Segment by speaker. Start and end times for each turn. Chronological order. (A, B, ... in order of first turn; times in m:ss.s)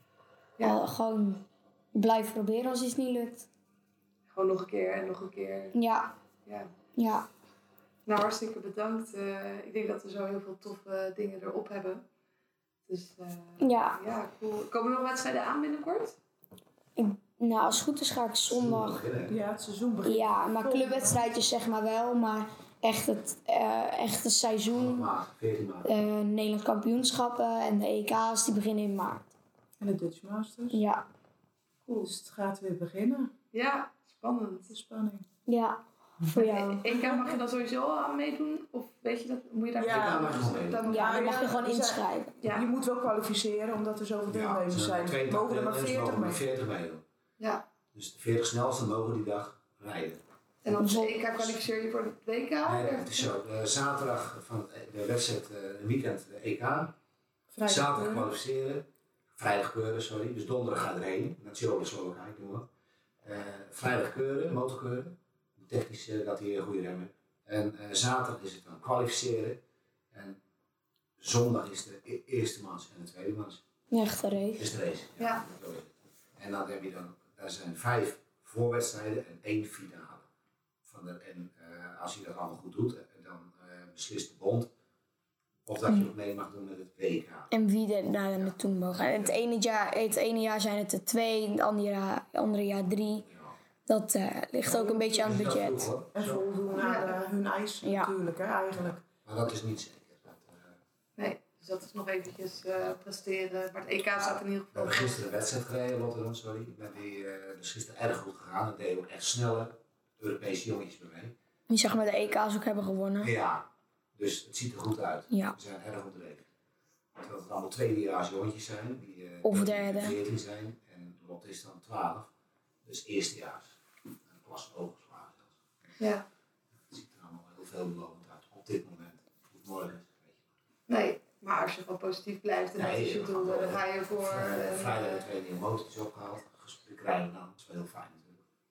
0:00.6-0:00.8 A
0:00.6-0:01.4 B
0:01.9-0:03.5 B
0:04.3-0:05.8 A
0:05.7-0:06.1 B
0:07.0-0:07.3 B
0:08.1-0:12.0 A
0:12.9-0:16.2 A
0:13.6-0:14.0 B
0:17.0-0:19.0 B
0:18.5-0:19.4 C
0:19.3-0:21.3 D
0:20.0-0:25.1 B
0:24.7-0:25.9 C
0:25.8-0:29.3 B
0:29.8-0:30.8 D
0:30.7-0:31.0 B
0:31.9-0:32.1 A
0:32.0-0:33.3 D
0:33.5-0:34.7 A
0:34.7-0:35.2 D
0:35.5-0:36.8 B
0:36.3-0:41.6 A
0:36.9-0:37.4 D
0:39.8-0:40.3 D
0:39.9-0:40.9 C
0:40.9-0:46.4 D
0:40.9-0:42.4 B
0:42.4-0:42.7 A
0:44.3-0:47.0 C
0:47.4-0:47.6 A
0:47.9-0:50.2 C
0:50.6-0:53.3 A
0:50.7-0:51.4 B
0:52.6-0:56.9 C
0:57.5-0:58.3 D
0:57.6-0:58.9 C
0:59.4-1:02.7 C
1:03.2-1:09.6 C
1:10.1-1:10.4 C
1:11.2-1:13.6 C
1:13.9-1:14.7 B
1:14.6-1:20.2 C
1:15.2-1:15.5 A
1:20.9-1:24.7 C
1:25.7-1:27.5 C
1:27.5-1:33.3 B
1:28.4-1:29.4 C
1:33.9-1:35.9 B
1:35.0-1:36.4 C
1:36.1-1:39.1 D
1:36.8-1:37.1 A
1:37.8-1:38.1 B
1:39.2-1:40.7 C
1:41.2-1:45.2 A
1:44.7-1:51.4 C
1:51.7-1:53.3 B
1:53.2-1:56.4 C
1:55.3-1:55.6 B
1:57.2-2:02.3 C
1:59.4-2:00.2 B
2:02.8-2:03.8 C
2:04.3-2:05.5 C
2:06.0-2:06.2 A
2:06.9-2:10.4 C
2:10.9-2:15.3 A
2:12.8-2:18.4 C